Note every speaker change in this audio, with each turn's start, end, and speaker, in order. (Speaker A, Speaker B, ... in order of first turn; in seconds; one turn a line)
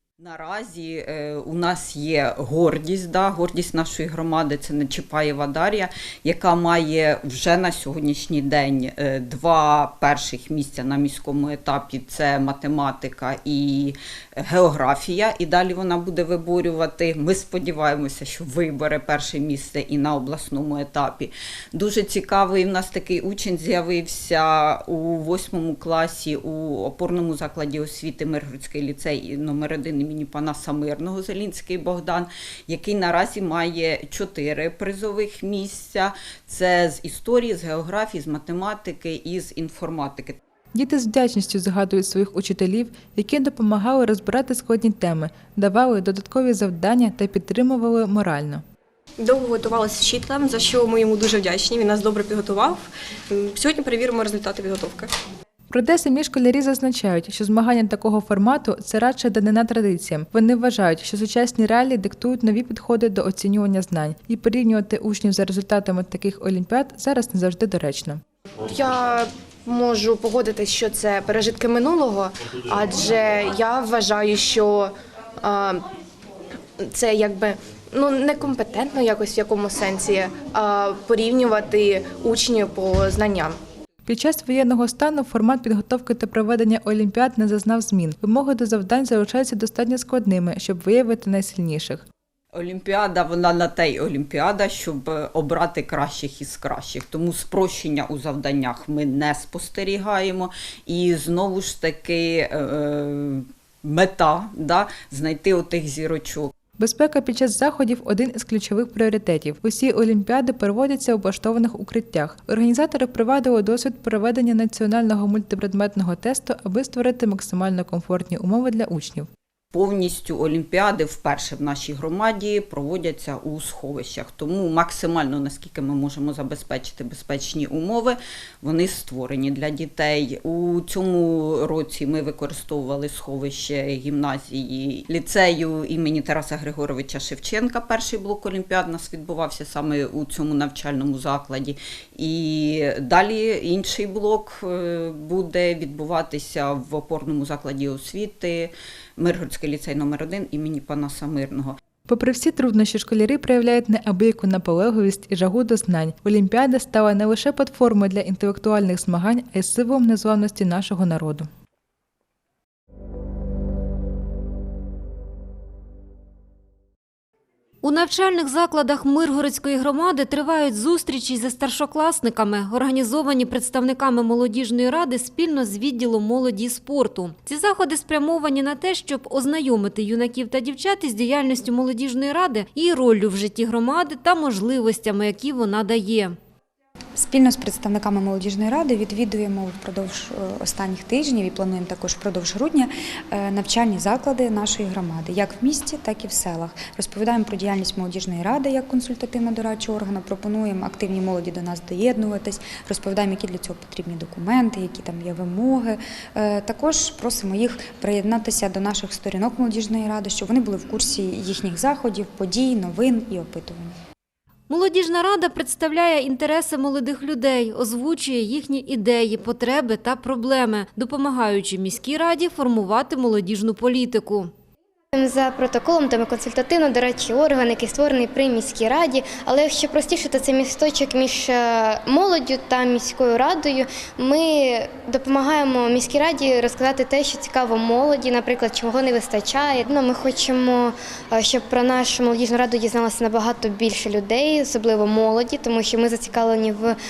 Speaker A: 0.2-40.4
Speaker B: 40.7-48.6
Speaker C: 49.2-55.1
Speaker B: 55.7-68.2
Speaker D: 68.7-75.9
Speaker D: 76.8-83.6
Speaker B: 84.1-92.1
Speaker A: 92.5-106.5
Speaker B: 106.8-119.3
Speaker A: 119.7-151.8
Speaker B: 152.1-161.5
Speaker E: 167.8-186.3
Speaker F: 187.2-213.9
Speaker E: 214.7-224.5
Speaker G: 225.1-247.0